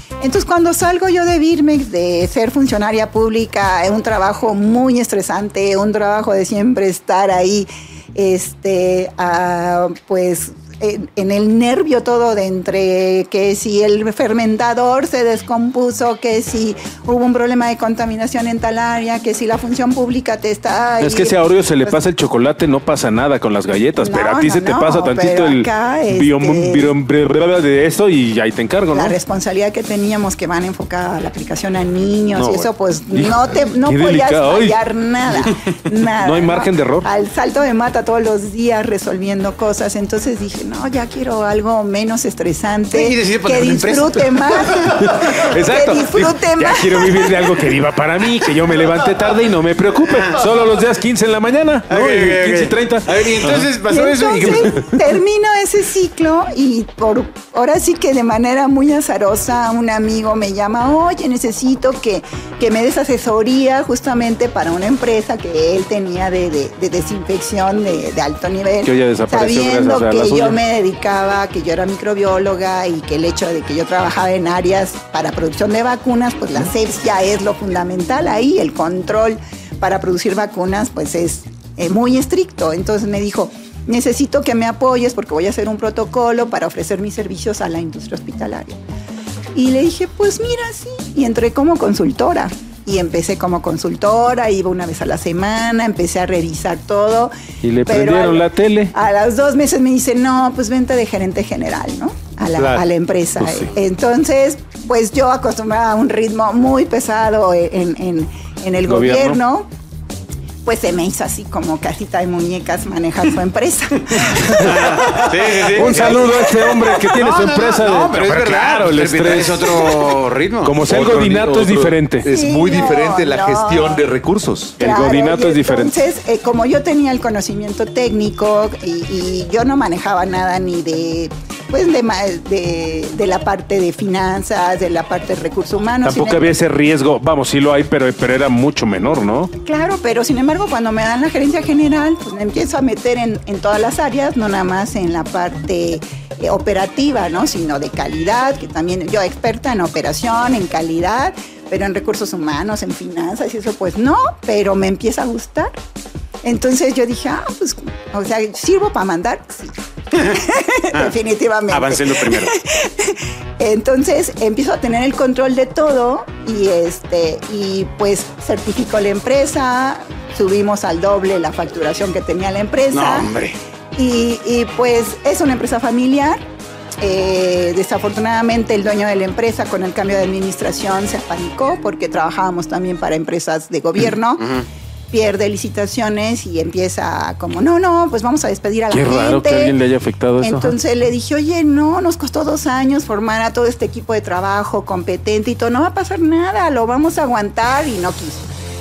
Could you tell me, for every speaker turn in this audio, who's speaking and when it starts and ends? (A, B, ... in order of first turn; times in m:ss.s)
0:00.2-0:22.0 A
0:21.0-0:29.2 B
0:24.0-0:26.9 A
0:28.9-0:47.7 A
0:32.3-0:34.8 B
0:36.0-0:37.1 B
0:42.9-0:44.6 C
0:44.7-0:53.7 B
0:50.1-0:50.4 C
0:51.9-0:54.9 C
0:53.8-1:28.8 A
0:54.5-0:54.9 B
1:08.8-1:10.6 B
1:29.5-1:37.4 A
1:37.6-1:38.9 B
1:37.9-1:49.7 A
1:42.6-1:42.8 D
1:43.4-1:43.7 B
1:48.8-1:49.4 B
1:50.6-1:57.0 A
1:54.2-2:00.0 B
1:54.5-2:00.8 C
1:58.2-2:00.0 D
2:00.6-2:02.2 B
2:00.9-2:04.8 D
2:02.2-2:04.0 A
2:04.8-2:06.0 B
2:04.8-2:16.6 A
2:16.0-2:19.5 B
2:19.6-2:35.7 A
2:36.4-2:53.3 A
2:41.7-2:42.6 C
2:52.9-2:53.6 C
2:54.0-2:56.4 A
2:57.0-3:09.8 A
3:08.9-3:10.8 B
3:10.4-3:18.5 A